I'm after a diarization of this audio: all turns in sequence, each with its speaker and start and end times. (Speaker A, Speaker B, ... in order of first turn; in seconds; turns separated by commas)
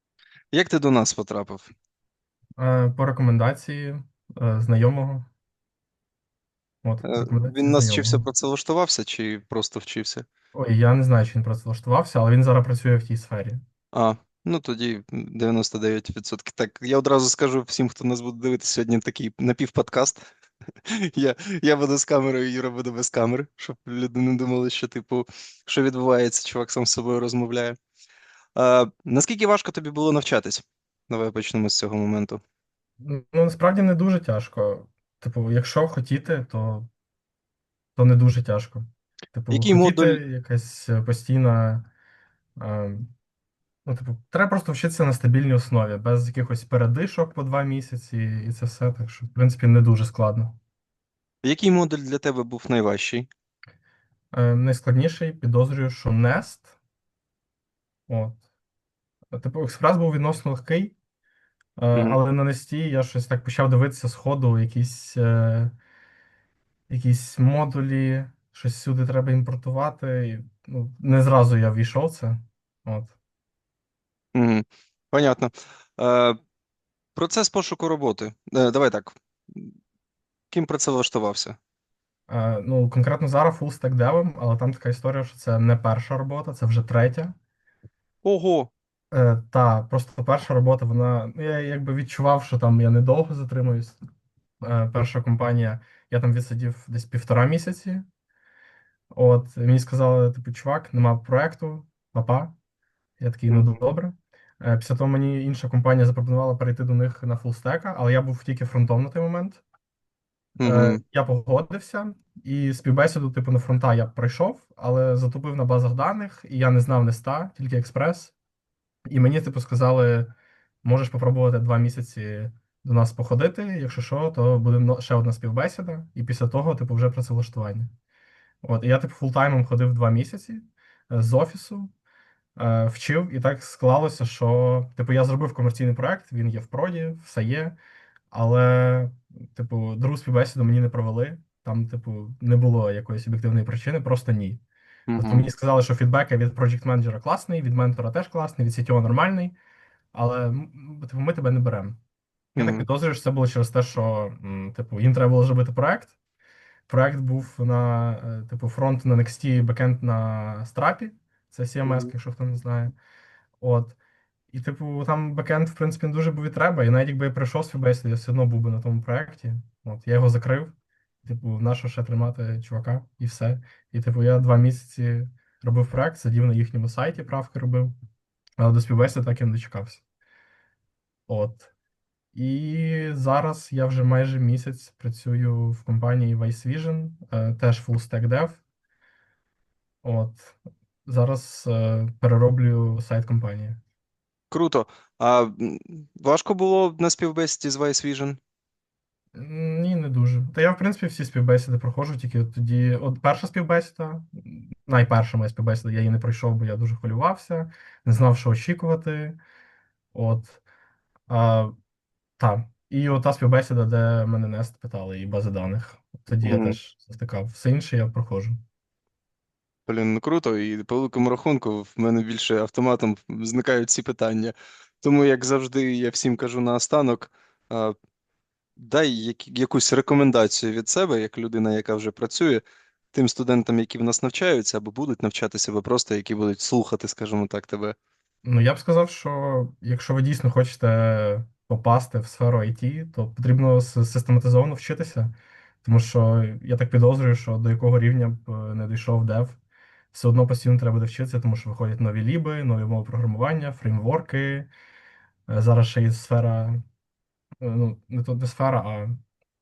Speaker A: 0.5-1.7, Speaker B: 2.6-5.3, Speaker B: 6.8-8.2, Speaker A: 7.0-10.2, Speaker B: 10.5-13.6, Speaker A: 13.9-20.2, Speaker A: 20.8-27.8, Speaker A: 28.6-32.4, Speaker B: 33.0-36.9, Speaker B: 38.0-41.9, Speaker A: 39.5-40.2, Speaker B: 42.6-43.1, Speaker B: 43.8-50.5, Speaker A: 51.4-53.3, Speaker B: 54.3-56.7, Speaker B: 58.1-58.4, Speaker B: 59.3-60.9, Speaker B: 61.8-65.7, Speaker A: 61.9-62.2, Speaker B: 66.9-73.1, Speaker A: 74.3-76.4, Speaker A: 77.1-79.7, Speaker A: 80.5-81.6, Speaker B: 82.3-87.3, Speaker A: 88.2-88.7, Speaker B: 89.1-94.0, Speaker B: 94.6-98.0, Speaker B: 99.1-102.5, Speaker B: 103.2-109.6, Speaker A: 110.6-111.0, Speaker B: 110.6-118.3, Speaker B: 119.1-120.3, Speaker B: 120.8-127.9, Speaker B: 128.6-131.9, Speaker B: 132.6-137.8, Speaker B: 138.3-144.6, Speaker A: 145.1-145.4, Speaker B: 145.2-149.6, Speaker B: 150.1-152.0, Speaker A: 152.6-152.9, Speaker B: 152.6-156.1, Speaker B: 156.9-162.9, Speaker A: 161.8-162.1, Speaker B: 163.6-164.0, Speaker B: 164.5-170.7, Speaker B: 171.2-177.9, Speaker B: 178.6-180.0, Speaker B: 181.3-181.7, Speaker B: 182.3-188.6, Speaker B: 190.0-193.8, Speaker A: 194.5-198.4, Speaker B: 199.3-209.4, Speaker B: 210.1-210.6, Speaker B: 211.3-211.7, Speaker B: 212.4-218.6, Speaker A: 216.4-216.8, Speaker A: 219.8-227.9, Speaker A: 228.8-237.9, Speaker B: 238.4-249.6, Speaker B: 250.1-254.7, Speaker B: 255.5-256.8, Speaker B: 257.6-259.2